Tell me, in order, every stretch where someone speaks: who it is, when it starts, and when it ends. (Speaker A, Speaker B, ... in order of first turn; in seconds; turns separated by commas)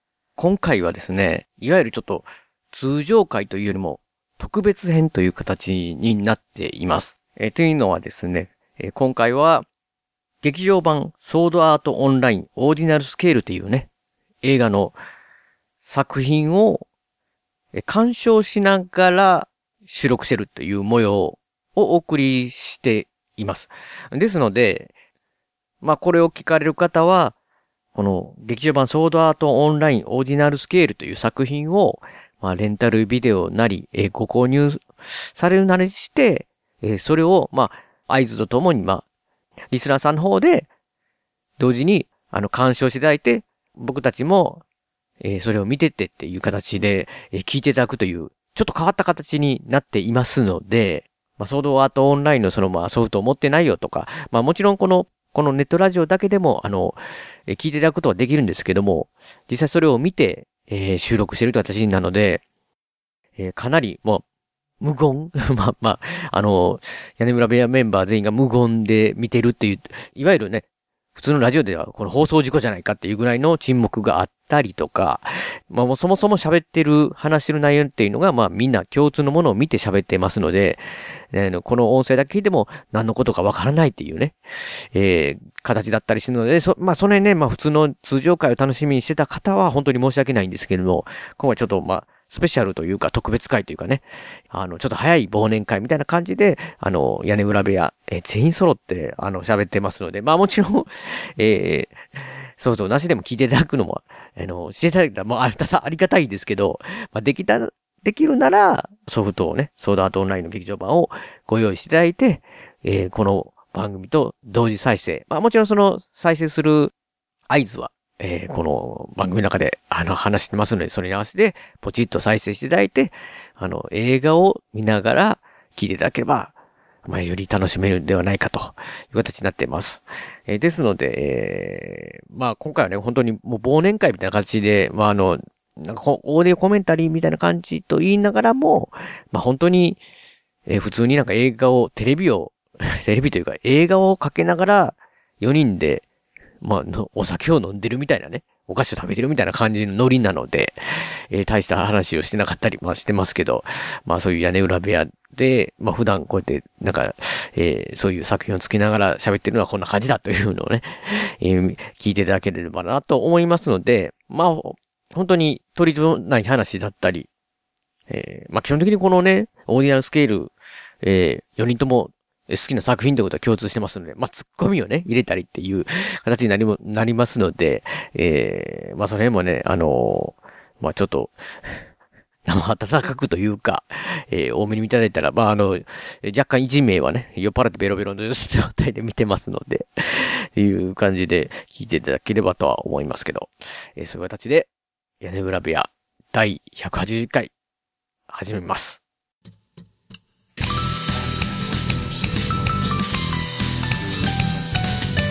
Speaker A: 0.4-9.7, Speaker A: 10.4-13.9, Speaker A: 14.4-15.0, Speaker A: 15.9-16.9, Speaker A: 17.7-24.9, Speaker A: 25.8-27.4, Speaker A: 27.9-39.0, Speaker A: 39.7-40.7, Speaker A: 41.6-44.6, Speaker A: 45.2-62.4, Speaker A: 63.4-64.2, Speaker A: 64.8-84.4, Speaker A: 84.9-116.9, Speaker A: 117.5-126.5, Speaker A: 127.1-140.0, Speaker A: 140.7-146.0, Speaker A: 146.6-167.3, Speaker A: 168.1-170.5, Speaker A: 171.0-181.7, Speaker A: 182.5-194.7, Speaker A: 195.2-197.5, Speaker A: 198.3-199.0